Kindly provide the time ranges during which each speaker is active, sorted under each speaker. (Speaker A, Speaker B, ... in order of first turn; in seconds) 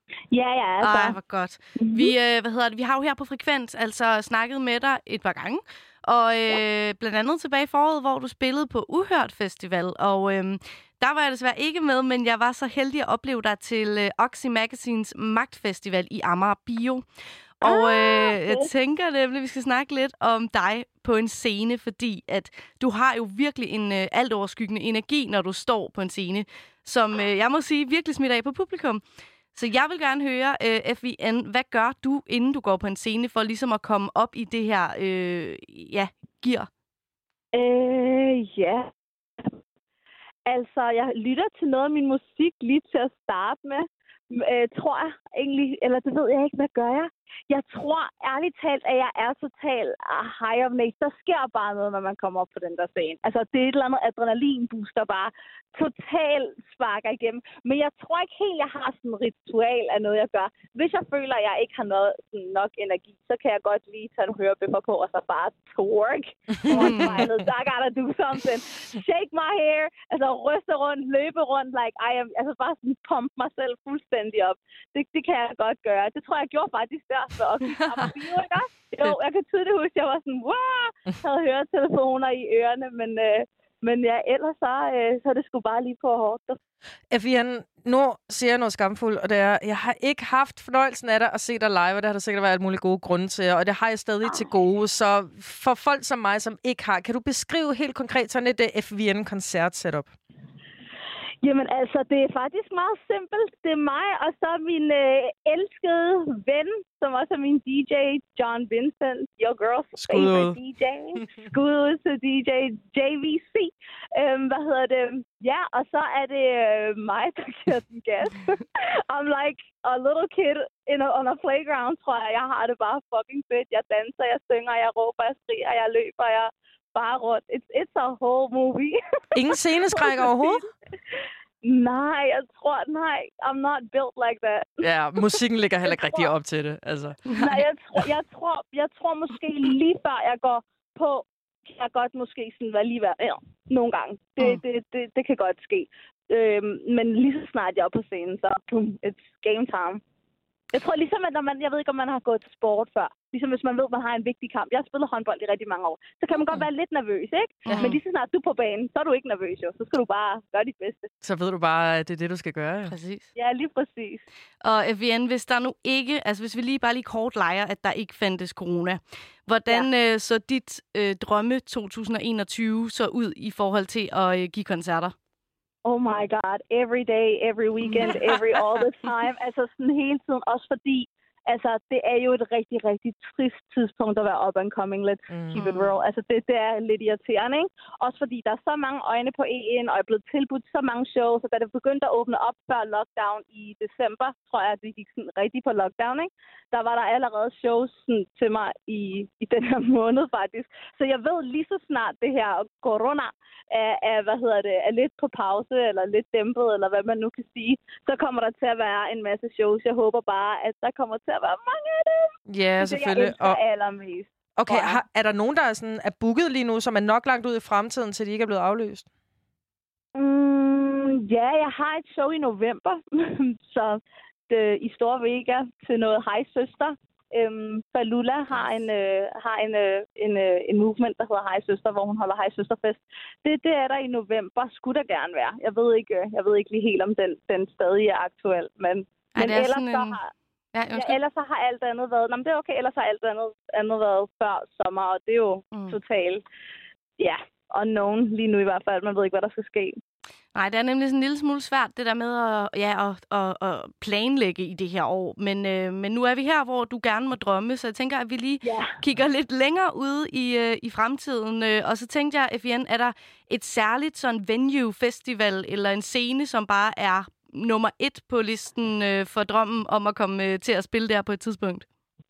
Speaker A: 0.3-1.1, 1.8-2.1, 17.6-18.7, 37.5-38.9, 40.5-86.6, 101.4-129.0, 129.9-130.6, 131.6-136.3, 137.3-150.0, 150.7-161.1, 163.3-164.2, 175.8-215.0, 220.2-240.3, 240.9-246.4, 247.2-250.0, 258.6-258.9
Speaker B: 0.8-17.0, 17.6-29.0, 29.5-36.7, 66.7-67.2, 157.7-158.0, 162.9-163.3, 164.6-175.1, 185.6-185.9, 239.3-240.2, 240.7-241.2, 245.7-246.0, 250.5-271.9
Speaker C: 66.7-67.3, 87.1-100.1, 110.0-110.6, 129.3-130.7, 134.8-137.5, 157.7-158.0, 161.2-162.9, 185.3-185.7, 212.5-213.6, 214.6-219.1